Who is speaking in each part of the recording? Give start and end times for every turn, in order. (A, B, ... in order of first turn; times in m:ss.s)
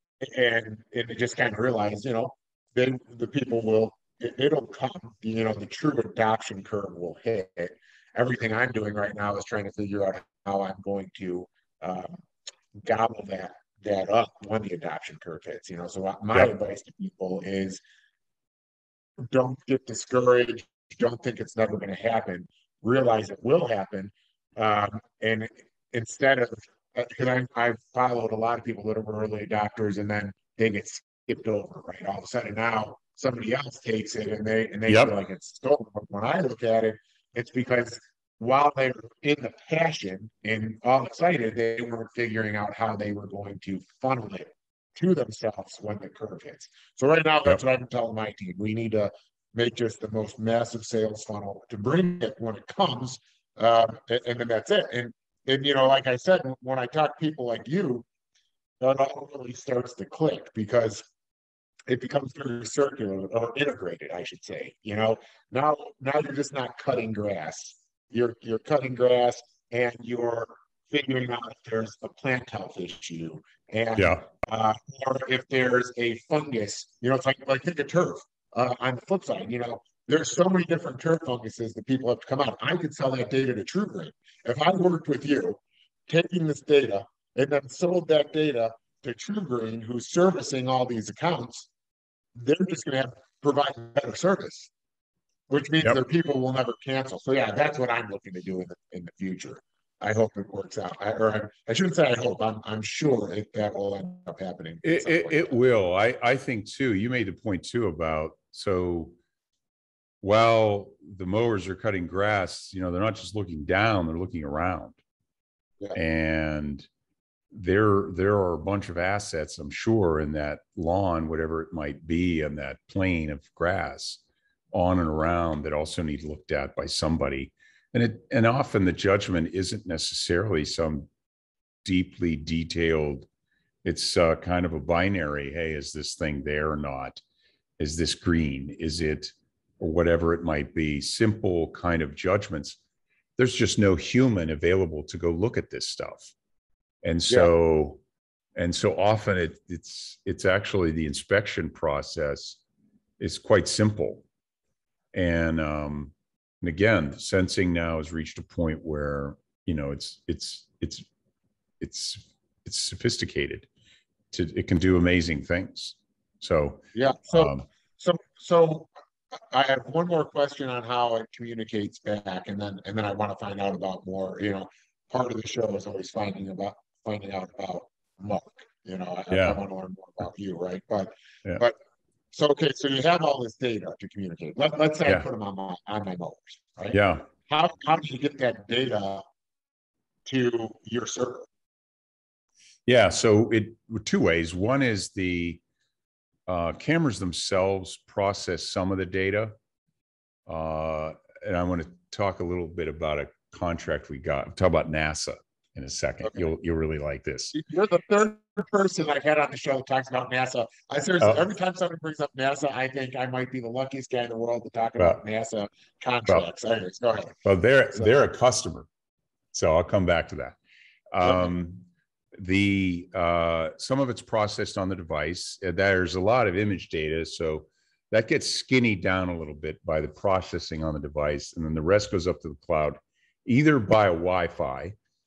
0:00.2-0:12.2 A
0:12.7-0:17.8 A
0:19.2-0:58.0 A
0:34.9-0:35.1 B
0:58.8-1:01.1 A
1:01.9-1:31.7 A
1:14.0-1:14.2 B
1:32.4-1:34.7 A
1:35.5-1:45.6 A
1:44.8-1:49.1 B
1:50.2-1:55.0 B
1:56.0-1:56.9 B
1:57.5-2:11.1 B
2:11.8-2:13.3 B
2:13.8-2:17.2 B
2:17.8-2:22.8 B
2:23.4-2:26.3 B
2:27.0-2:28.0 B
2:28.6-2:32.6 B
2:33.2-2:34.2 B
2:35.1-2:41.1 B
2:41.8-2:43.7 B
2:44.3-2:47.6 B
2:46.9-3:01.8 A
2:59.3-2:59.6 B
3:02.3-3:09.2 A
3:06.9-3:07.3 B
3:10.3-3:11.5 A
3:12.9-3:15.6 B
3:16.5-3:19.5 B
3:20.5-3:27.5 B
3:27.5-3:37.4 A
3:37.4-3:38.9 B
3:39.5-3:40.6 B
3:41.1-3:55.0 B
3:41.2-3:41.5 A